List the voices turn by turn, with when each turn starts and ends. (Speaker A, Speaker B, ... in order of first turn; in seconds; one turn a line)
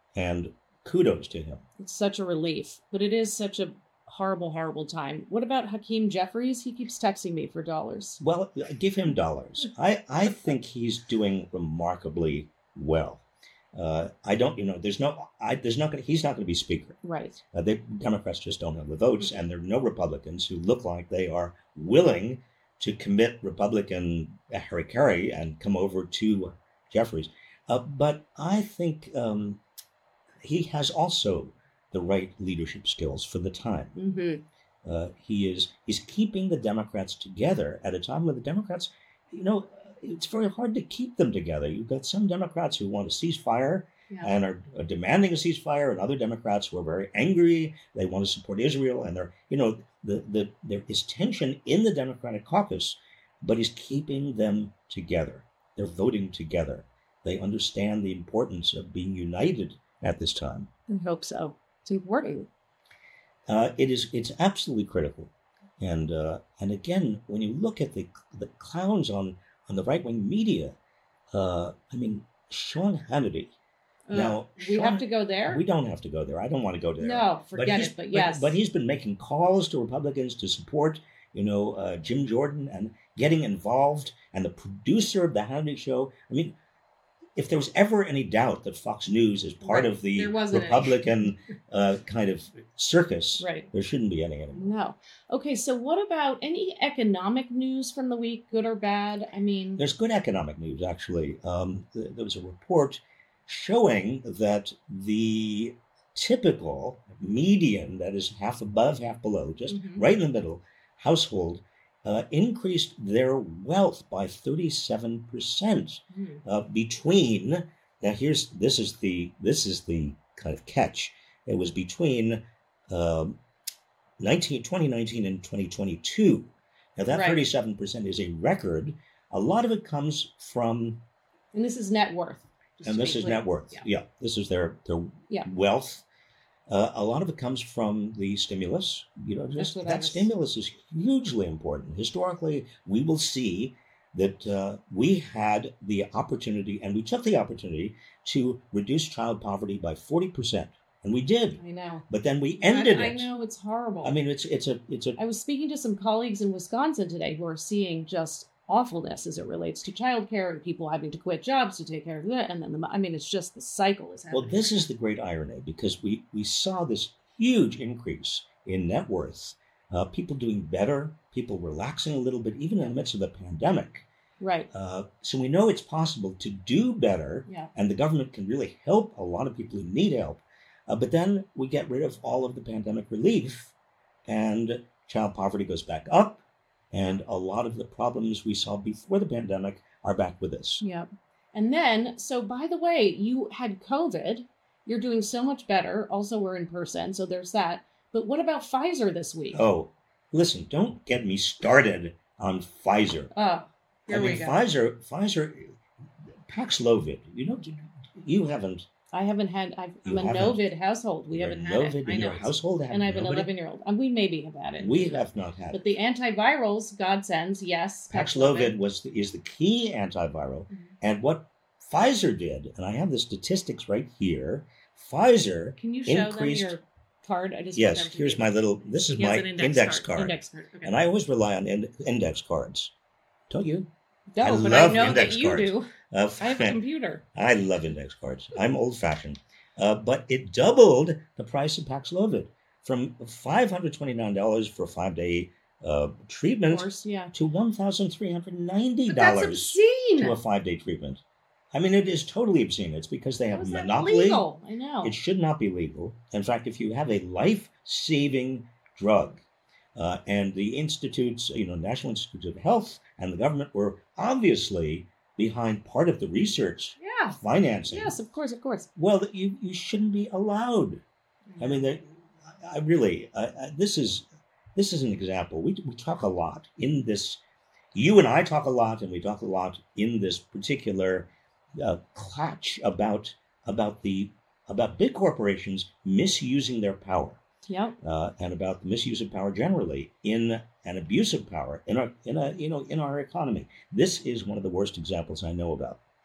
Speaker A: 0.1-1.6
Speaker B: 1.8-8.2
Speaker A: 8.2-17.0
Speaker B: 17.0-17.4
Speaker A: 17.5-29.6
Speaker A: 30.4-34.0
Speaker B: 34.0-34.4
Speaker A: 34.8-60.7
Speaker B: 60.9-62.5
Speaker A: 63.5-70.8
Speaker A: 71.3-73.5
Speaker B: 74.1-75.6
Speaker A: 74.1-86.5
Speaker B: 77.0-78.6
Speaker A: 87.3-94.7
Speaker B: 89.6-91.0
Speaker B: 93.4-93.7
Speaker B: 94.5-99.8
Speaker A: 99.8-122.4
Speaker B: 109.7-110.0
Speaker B: 116.1-116.4
Speaker A: 122.9-123.4
Speaker A: 124.2-131.0
Speaker B: 127.1-127.4
Speaker B: 131.5-133.8
Speaker A: 132.8-136.0
Speaker A: 136.7-153.3
Speaker B: 139.6-140.3
Speaker B: 151.6-154.2
Speaker A: 154.0-155.2
Speaker B: 155.2-164.9
Speaker A: 164.3-174.1
Speaker B: 174.4-174.7
Speaker A: 174.7-183.7
Speaker A: 184.3-190.8
Speaker B: 190.8-199.6
Speaker A: 199.5-203.3
Speaker B: 203.3-204.6
Speaker A: 204.1-205.7
Speaker A: 206.5-208.9
Speaker B: 209.1-218.8
Speaker A: 210.0-210.6
Speaker A: 211.3-213.5
Speaker A: 214.8-215.8
Speaker A: 218.1-226.8
Speaker B: 225.8-231.0
Speaker A: 227.7-232.9
Speaker A: 233.5-233.9
Speaker B: 234.3-237.2
Speaker A: 234.4-236.8
Speaker A: 237.3-251.2
Speaker B: 246.7-247.3
Speaker B: 249.1-250.4
Speaker A: 251.7-254.4
Speaker B: 253.5-255.2
Speaker A: 255.0-259.4
Speaker A: 259.9-268.1
Speaker B: 267.0-268.9
Speaker A: 268.9-271.0
Speaker B: 271.5-271.9
Speaker A: 271.6-277.4
Speaker A: 277.9-287.4
Speaker B: 287.7-287.9
Speaker A: 288.0-296.0